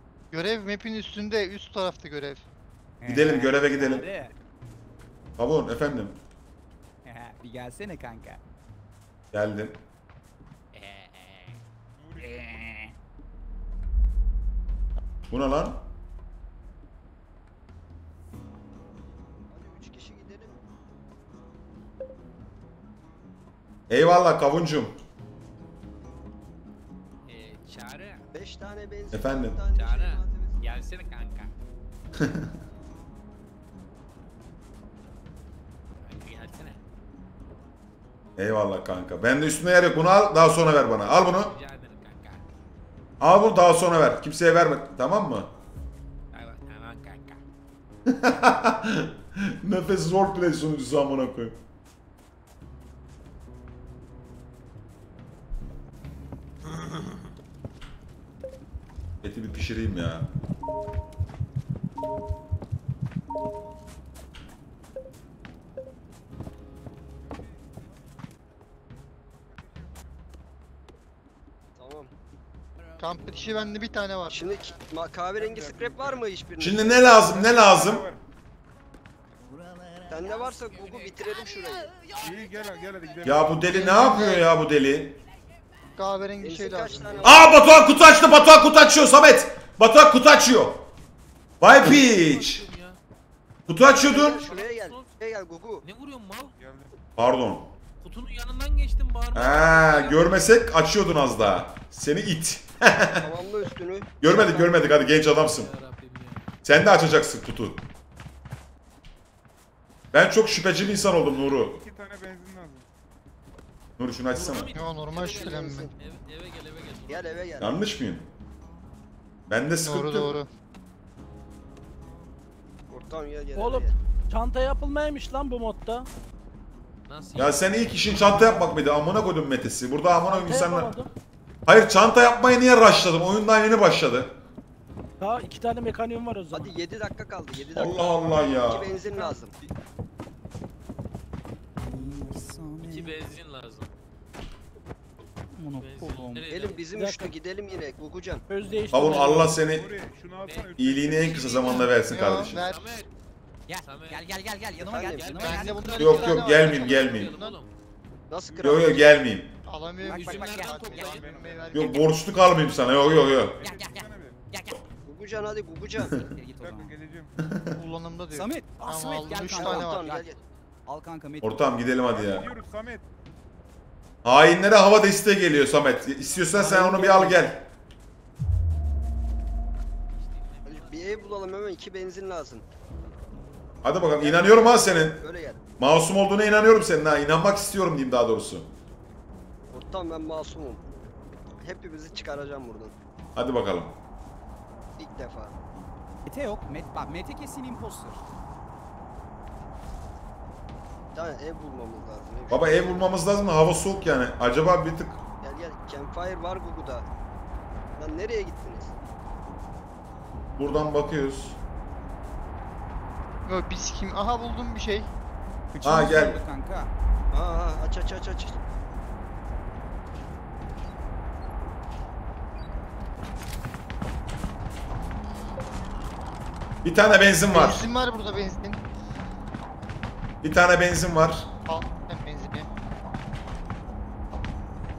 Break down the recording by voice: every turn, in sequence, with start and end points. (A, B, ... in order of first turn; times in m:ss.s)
0:00.3-0:02.4 A
0:03.0-0:04.3 B
0:03.1-0:04.1 C
0:05.4-0:06.2 C
0:07.0-0:08.4 B
0:09.3-0:09.8 C
0:10.7-0:11.6 B
0:12.0-0:12.5 D
0:12.2-0:12.9 B
0:15.3-0:15.8 C
0:19.5-0:20.5 E
0:23.9-0:25.0 C
0:27.3-0:28.2 F
0:28.3-0:30.6 E
0:29.1-0:29.6 C
0:29.8-0:31.5 F
0:32.2-0:32.5 C
0:36.1-0:36.8 F
0:38.4-0:41.5 C
0:41.5-0:42.4 F
0:43.2-0:45.5 C
0:46.3-0:47.4 F
0:48.1-0:51.6 C
0:59.2-1:00.3 C
1:07.3-1:07.9 D
1:09.4-1:10.2 D
1:11.8-1:12.1 E
1:13.0-1:14.6 A
1:14.3-1:17.0 E
1:15.4-1:16.3 D
1:16.6-1:18.1 C
1:17.2-1:18.2 D
1:20.1-1:22.0 E
1:22.2-1:23.6 D
1:23.2-1:25.2 C
1:23.7-1:24.5 A
1:26.0-1:27.5 A
1:26.4-1:27.6 E
1:27.2-1:30.9 C
1:31.6-1:32.6 C
1:31.9-1:33.0 F
1:33.7-1:34.4 C
1:33.9-1:35.8 E
1:34.2-1:35.1 F
1:35.8-1:36.6 F
1:36.6-1:36.9 D
1:37.2-1:37.7 C
1:38.0-1:40.5 F
1:39.3-1:43.2 C
1:43.2-1:44.9 E
1:44.2-1:45.7 C
1:45.3-1:46.5 F
1:46.6-1:47.9 C
1:50.1-1:51.8 C
1:51.4-1:52.9 D
1:54.0-1:54.7 C
1:54.3-1:57.5 F
1:54.7-1:55.9 A
1:55.2-1:55.9 E
1:57.1-1:57.8 E
1:57.6-1:58.3 C
1:59.5-2:00.3 C
1:59.8-2:00.5 A
2:02.9-2:04.0 E
2:03.6-2:06.1 G
2:07.1-2:08.6 F
2:07.4-2:10.9 C
2:10.3-2:11.1 G
2:11.7-2:14.4 C
2:15.2-2:16.8 G
2:16.5-2:19.5 E
2:17.6-2:18.9 C
2:21.8-2:23.2 B
2:22.9-2:23.9 F
2:25.5-2:26.5 B
2:25.8-2:26.8 F
2:26.5-2:28.4 E
2:27.0-2:27.3 G
2:28.5-2:29.5 G
2:28.9-2:29.9 C
2:29.6-2:31.8 D
2:30.4-2:30.7 F
2:30.8-2:32.6 C
2:31.3-2:31.8 F
2:32.0-2:33.0 A
2:32.6-2:33.1 F
2:33.7-2:36.7 B
2:33.9-2:34.3 F
2:34.8-2:35.5 E
2:35.2-2:37.7 F
2:35.4-2:37.6 A
2:36.0-2:37.3 C
2:38.3-2:39.0 E
2:38.5-2:39.1 D
2:38.6-2:39.5 C
2:39.6-2:42.1 A
2:40.0-2:41.0 B
2:40.1-2:41.3 F
2:40.8-2:41.9 D
2:41.7-2:43.6 C
2:43.0-2:44.4 D
2:43.6-2:44.8 B
2:45.0-2:46.3 E
2:46.2-2:46.9 B
2:46.6-2:47.4 D
2:47.4-2:47.8 C
2:47.8-2:50.1 A
2:48.3-2:50.3 B
2:49.3-2:50.4 E
2:50.3-2:50.6 F
2:50.9-2:51.7 B
2:51.4-2:52.5 C
2:52.1-2:53.0 D
2:54.2-2:57.6 C
2:56.5-2:57.5 G
3:00.1-3:01.5 F
3:00.6-3:02.6 E
3:03.8-3:05.2 C
3:04.2-3:05.6 E
3:05.8-3:08.7 C
3:09.7-3:10.8 E
3:11.6-3:13.0 E
3:13.4-3:14.0 C
3:15.0-3:15.6 E
3:16.3-3:18.2 B
3:21.1-3:23.0 E
3:22.5-3:25.2 C
3:25.4-3:27.1 E
3:28.0-3:29.0 E
3:30.6-3:31.6 C
3:33.4-3:35.1 A
3:35.7-3:36.9 B
3:35.8-3:36.4 C
3:37.3-3:38.6 E
3:46.8-3:47.8 C
3:47.5-3:48.8 A
3:50.4-3:51.5 C
3:51.7-3:52.7 A